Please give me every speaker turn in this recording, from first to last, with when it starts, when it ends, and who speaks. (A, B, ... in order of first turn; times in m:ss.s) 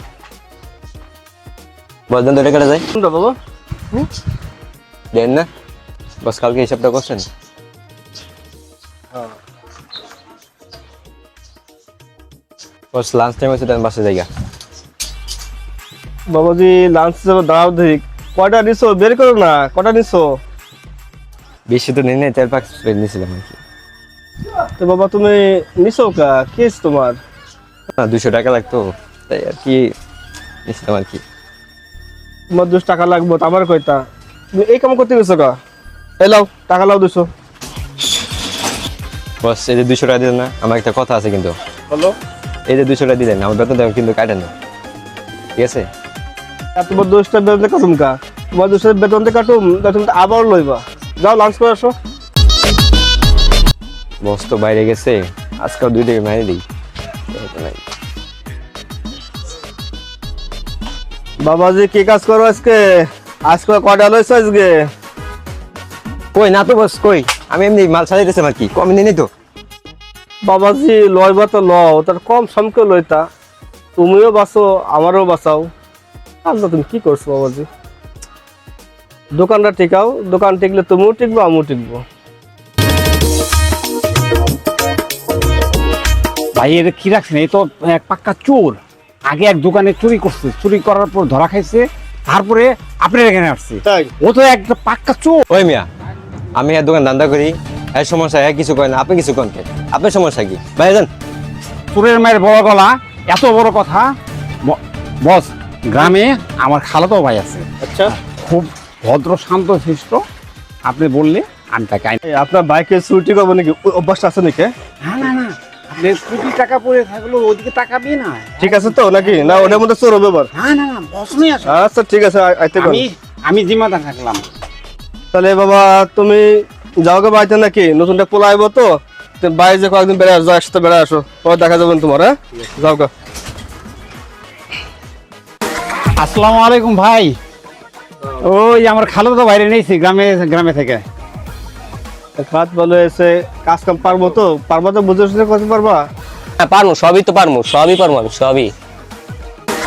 0:02.1-0:02.8 A
0:02.9-0:03.4 B
0:05.1-0:05.5 A
0:06.2-0:07.3 A
0:12.9-0:14.3 A
0:16.3-0:20.3 B
0:21.7-0:23.6 A
0:24.8-0:27.2 B
0:28.0-0:29.9 A
0:30.6-0:31.2 A
0:32.5-0:35.6 B
0:36.2-0:37.3 B
0:39.4-0:41.5 A
0:42.7-0:44.5 A
0:45.6-0:45.8 A
0:46.8-0:51.9 B
0:54.2-0:56.6 A
0:57.3-0:57.8 A
1:01.4-1:04.8 B
1:06.3-1:09.3 A
1:10.4-1:13.2 B
1:14.0-1:15.7 B
1:16.4-1:17.7 B
1:19.3-1:22.0 B
1:26.6-1:35.4 C
1:33.8-1:34.1 B
1:35.5-1:35.8 A
1:36.5-1:41.1 A
1:41.9-1:44.0 C
1:44.6-1:50.2 C
1:47.8-1:48.1 B
1:50.9-1:52.2 C
1:52.2-1:54.7 B
1:55.0-1:59.8 C
1:58.6-2:00.5 B
2:00.5-2:01.8 C
2:01.6-2:03.0 B
2:02.8-2:04.4 C
2:05.3-2:13.1 B
2:16.2-2:17.3 C
2:18.4-2:21.0 C
2:22.4-2:26.0 B
2:26.6-2:28.7 D